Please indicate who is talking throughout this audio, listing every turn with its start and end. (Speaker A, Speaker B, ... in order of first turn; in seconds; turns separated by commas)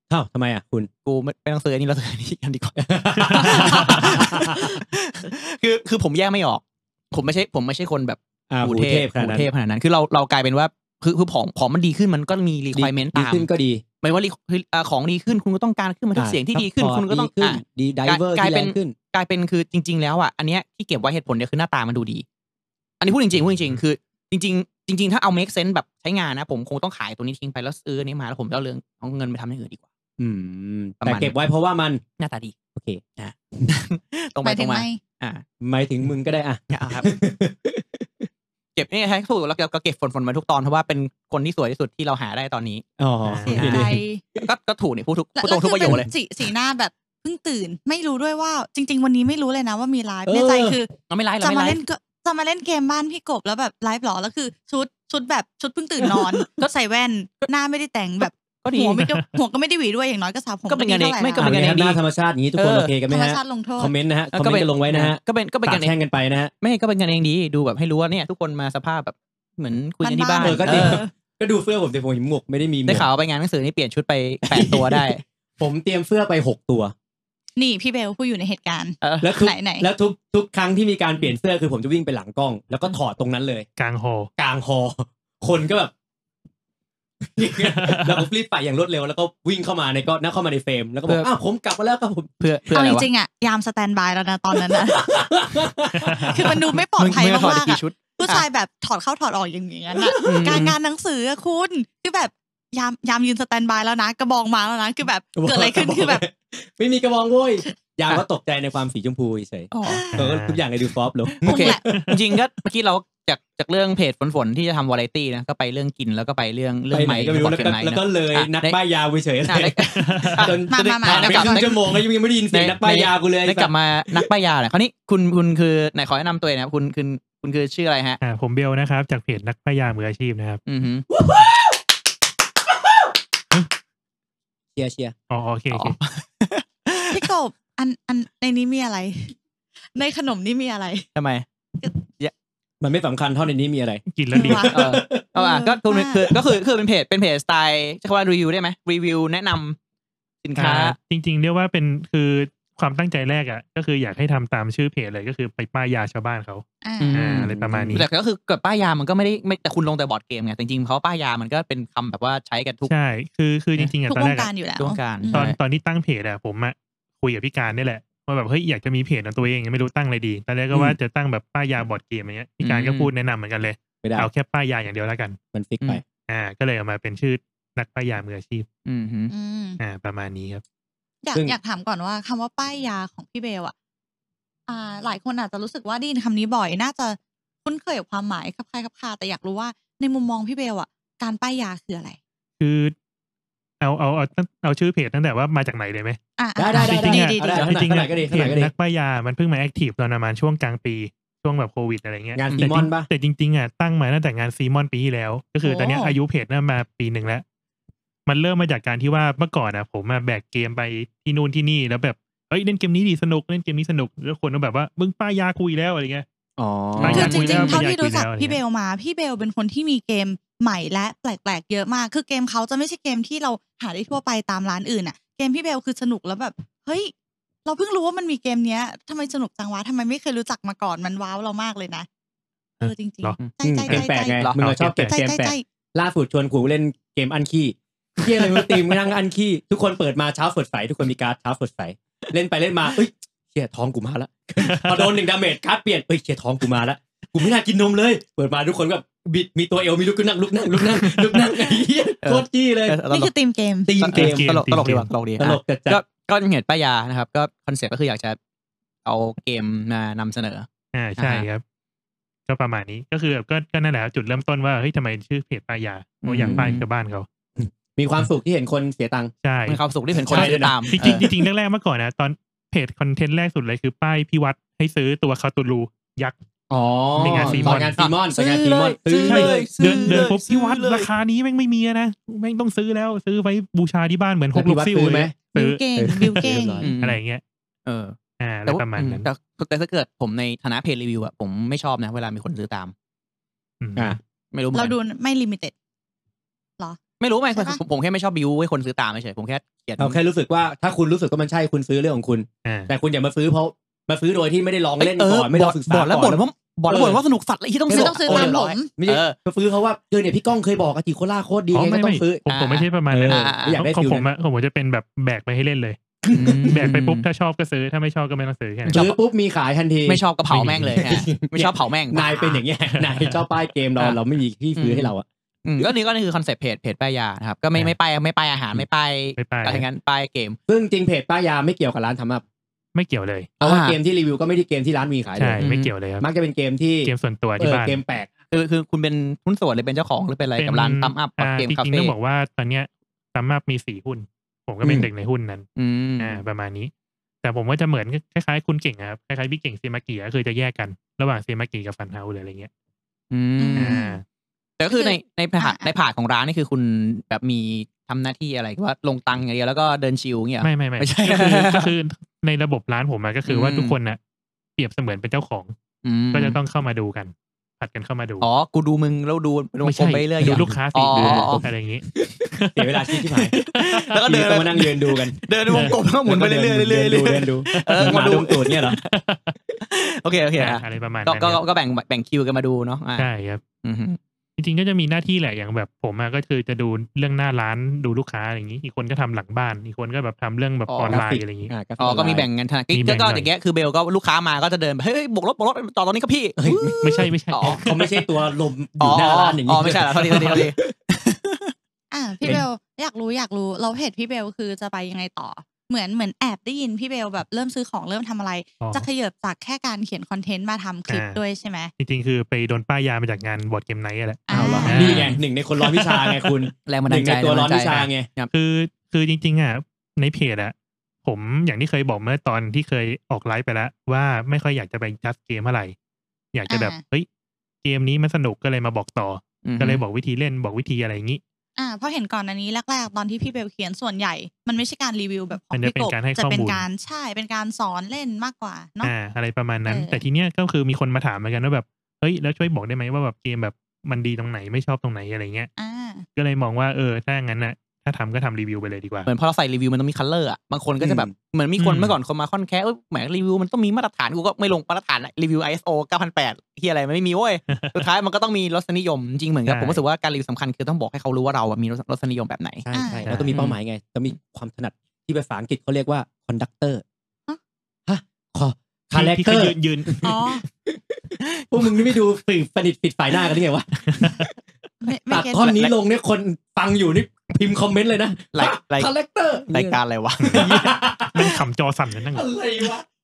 Speaker A: 0.1-0.9, Speaker B: 1.1-13.5, Speaker A: 2.8-4.8, Speaker C: 3.2-4.0, Speaker A: 8.5-9.5, Speaker A: 12.7-13.8, Speaker B: 14.0-22.2, Speaker A: 16.1-18.9, Speaker B: 23.0-29.8, Speaker A: 30.2-32.0, Speaker B: 31.0-31.3, Speaker B: 32.2-32.5, Speaker A: 32.7-33.0, Speaker B: 33.2-35.4, Speaker D: 34.4-35.0, Speaker A: 35.6-38.3, Speaker B: 36.7-37.1, Speaker B: 38.7-42.8, Speaker A: 43.0-44.5, Speaker C: 43.2-43.9, Speaker D: 43.4-44.2, Speaker B: 44.4-46.1, Speaker D: 45.4-61.5, Speaker A: 50.2-50.8, Speaker B: 51.1-51.8, Speaker B: 56.1-56.5, Speaker B: 58.2-59.0, Speaker C: 59.0-59.3, Speaker B: 60.7-62.0, Speaker A: 61.4-66.5, Speaker B: 62.5-62.9, Speaker D: 63.1-63.9, Speaker B: 64.3-65.9, Speaker B: 66.6-71.0, Speaker D: 70.0-71.1, Speaker A: 70.4-73.1, Speaker B: 72.8-75.2, Speaker A: 74.5-76.9, Speaker D: 77.6-79.9, Speaker B: 79.0-79.3, Speaker A: 79.2-83.7, Speaker C: 83.8-84.3, Speaker A: 84.4-85.9, Speaker A: 87.2-92.3, Speaker C: 87.6-88.2, Speaker B: 92.4-93.1, Speaker D: 92.7-95.2, Speaker A: 94.5-96.6, Speaker C: 95.9-96.4, Speaker D: 96.3-106.2, Speaker B: 96.9-98.4, Speaker A: 100.0-100.7, Speaker B: 100.2-100.8, Speaker A: 105.3-112.4, Speaker B: 109.7-110.0, Speaker D: 109.8-110.2, Speaker C: 110.1-110.6, Speaker B: 111.4-118.8, Speaker D: 111.5-111.8, Speaker A: 116.9-124.3, Speaker B: 119.5-121.8, Speaker C: 120.0-120.5, Speaker D: 120.7-121.8, Speaker B: 122.5-128.2, Speaker C: 128.2-130.6, Speaker B: 130.7-131.1, Speaker A: 131.1-131.8, Speaker A: 134.8-135.1, Speaker C: 135.3-135.9, Speaker B: 135.7-137.3, Speaker D: 137.1-139.3, Speaker D: 139.9-141.1, Speaker B: 141.2-141.4, Speaker B: 142.0-142.3, Speaker A: 142.8-145.2, Speaker C: 144.1-144.7, Speaker D: 144.3-146.3, Speaker B: 144.7-149.8, Speaker B: 150.4-150.9, Speaker C: 150.6-158.1, Speaker D: 156.8-157.2, Speaker B: 157.0-162.9, Speaker A: 157.4-158.0, Speaker C: 162.9-164.5, Speaker D: 164.1-165.5, Speaker B: 164.8-165.6, Speaker C: 165.3-175.4, Speaker B: 172.6-173.1, Speaker A: 174.0-174.3, Speaker A: 175.5-176.0, Speaker C: 176.3-178.7, Speaker B: 178.8-179.3, Speaker D: 179.3-179.8, Speaker C: 179.8-180.6, Speaker D: 181.2-183.7, Speaker D: 184.7-192.2, Speaker C: 192.6-192.9, Speaker C: 193.8-196.2, Speaker D: 196.4-197.7, Speaker A: 196.6-198.7, Speaker C: 196.7-207.4, Speaker A: 202.3-203.1, Speaker B: 202.4-202.7, Speaker D: 205.6-206.2, Speaker C: 208.2-216.2, Speaker A: 216.6-217.8, Speaker C: 216.9-218.6, Speaker B: 217.0-217.3, Speaker D: 217.0-227.1, Speaker D: 227.6-232.1, Speaker D: 232.8-234.4, Speaker C: 232.8-233.4, Speaker A: 233.6-253.0, Speaker B: 234.2-234.6, Speaker C: 234.6-235.1, Speaker D: 235.0-235.6, Speaker C: 244.6-245.2, Speaker C: 250.8-251.5, Speaker B: 252.2-253.3, Speaker D: 253.1-253.9, Speaker A: 253.8-254.6, Speaker B: 254.0-258.4, Speaker C: 254.1-255.1, Speaker A: 255.4-256.0, Speaker B: 259.0-261.5, Speaker C: 260.9-261.6, Speaker C: 262.5-267.3, Speaker B: 266.2-266.8, Speaker A: 266.4-266.7, Speaker A: 267.6-269.3, Speaker C: 269.4-276.4, Speaker B: 269.7-271.3, Speaker A: 270.1-271.1, Speaker A: 276.7-280.3, Speaker C: 277.1-277.9, Speaker B: 277.2-281.1, Speaker C: 279.2-286.4, Speaker A: 284.5-285.4, Speaker D: 285.5-286.8, Speaker A: 285.9-286.9, Speaker B: 286.8-287.2, Speaker C: 287.0-287.4, Speaker B: 287.9-292.9, Speaker C: 288.4-289.3, Speaker C: 293.8-294.2, Speaker B: 294.5-294.9, Speaker D: 294.7-295.7, Speaker B: 297.2-300.2, Speaker D: 297.5-297.8, Speaker A: 300.0-307.2, Speaker C: 302.6-302.9, Speaker B: 305.0-309.4, Speaker A: 307.9-312.4, Speaker D: 307.9-308.9, Speaker C: 311.7-316.0, Speaker B: 312.5-313.8, Speaker A: 313.1-314.3, Speaker A: 316.2-316.7, Speaker B: 316.3-317.2, Speaker C: 316.6-319.0, Speaker B: 318.9-319.2, Speaker A: 318.9-320.2, Speaker B: 320.0-322.4, Speaker C: 320.5-321.0, Speaker A: 320.9-325.2, Speaker C: 322.9-323.4, Speaker B: 324.8-325.1, Speaker B: 325.6-330.6, Speaker C: 329.4-329.9, Speaker A: 330.7-332.4, Speaker C: 332.9-333.5, Speaker A: 333.6-338.3, Speaker B: 333.6-334.0, Speaker C: 335.4-336.2, Speaker B: 335.6-335.9, Speaker C: 337.0-338.0, Speaker B: 338.5-342.1, Speaker C: 340.6-345.7, Speaker B: 345.8-346.4, Speaker C: 346.2-346.9, Speaker C: 347.4-352.7, Speaker B: 353.3-354.0, Speaker D: 353.6-354.2, Speaker C: 353.8-354.2, Speaker B: 354.8-361.9, Speaker D: 354.9-355.9, Speaker C: 360.6-364.2, Speaker B: 363.5-363.9, Speaker C: 364.8-365.7, Speaker B: 366.0-366.6, Speaker C: 366.3-368.4, Speaker B: 368.4-371.6, Speaker C: 369.8-372.9, Speaker A: 370.4-371.6, Speaker A: 372.7-373.5, Speaker B: 373.4-379.1, Speaker C: 373.4-374.1, Speaker A: 374.2-379.0, Speaker C: 375.7-376.0, Speaker C: 377.7-378.3, Speaker C: 379.0-379.5, Speaker B: 379.8-383.3, Speaker C: 380.5-381.6, Speaker C: 383.2-383.6, Speaker B: 383.8-384.2, Speaker C: 384.6-391.7, Speaker B: 390.9-391.2, Speaker A: 391.1-392.5, Speaker B: 392.0-398.1, Speaker C: 392.9-393.5, Speaker A: 396.6-400.9, Speaker C: 397.0-398.1, Speaker B: 399.0-401.7, Speaker C: 400.2-400.6, Speaker D: 402.1-411.9, Speaker C: 408.8-409.1, Speaker C: 411.1-411.4, Speaker C: 412.0-416.7, Speaker D: 414.5-415.2, Speaker A: 414.5-418.3, Speaker B: 414.9-415.4, Speaker B: 416.9-418.5, Speaker C: 418.5-425.9, Speaker C: 426.5-427.3, Speaker D: 426.7-427.0, Speaker C: 427.8-431.4, Speaker B: 429.6-430.0, Speaker D: 431.8-439.1, Speaker C: 435.7-436.8, Speaker C: 439.0-445.7, Speaker D: 439.9-440.2, Speaker D: 445.8-446.2, Speaker C: 446.3-449.3, Speaker B: 449.2-462.8, Speaker A: 451.0-451.3, Speaker C: 451.8-452.1, Speaker C: 459.7-460.0, Speaker A: 462.8-467.0, Speaker D: 462.9-463.2, Speaker C: 463.2-463.6, Speaker A: 468.1-474.4, Speaker C: 469.1-470.3, Speaker D: 470.2-470.6, Speaker C: 474.1-474.5, Speaker D: 475.0-475.8, Speaker A: 475.3-480.0, Speaker B: 475.5-475.9, Speaker B: 478.5-479.1, Speaker B: 479.7-481.4, Speaker C: 480.4-482.5, Speaker A: 480.5-481.5, Speaker A: 482.3-483.0